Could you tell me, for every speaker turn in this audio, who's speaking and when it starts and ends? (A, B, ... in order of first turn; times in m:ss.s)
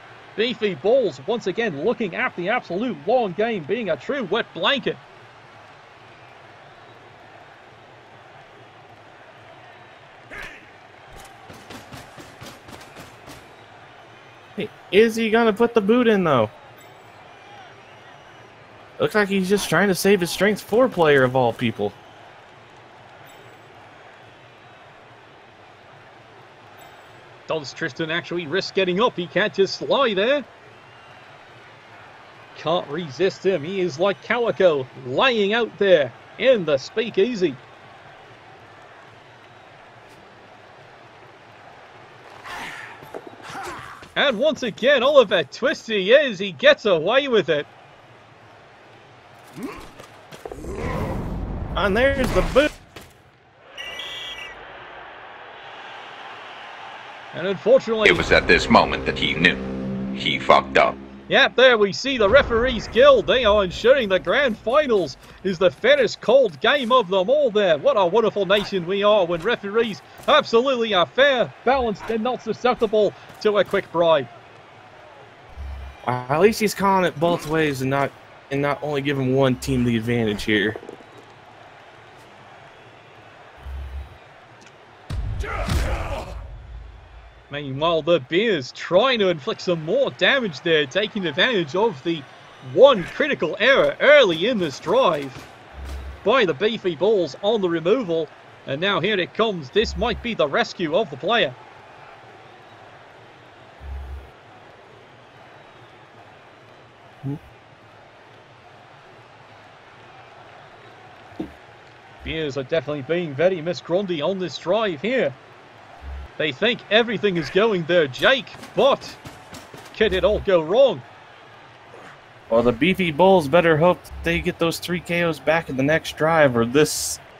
0:00.4-0:05.0 A
0:14.6-0:16.5 B
0:19.0-0:22.0 B
0:27.5-0:30.4 A
0:32.6-0:37.6 A
0:44.2-0:47.7 A
0:51.7-0:52.7 B
0:57.3-0:58.2 A
0:58.0-0:59.6 C
1:00.2-1:01.0 C
1:01.3-1:14.3 A
1:16.0-1:20.8 B
1:27.5-1:35.4 A
1:36.2-1:41.6 A
1:52.2-1:55.4 A
1:56.4-1:59.2 A
1:59.9-2:01.0 A
2:02.5-2:07.2 B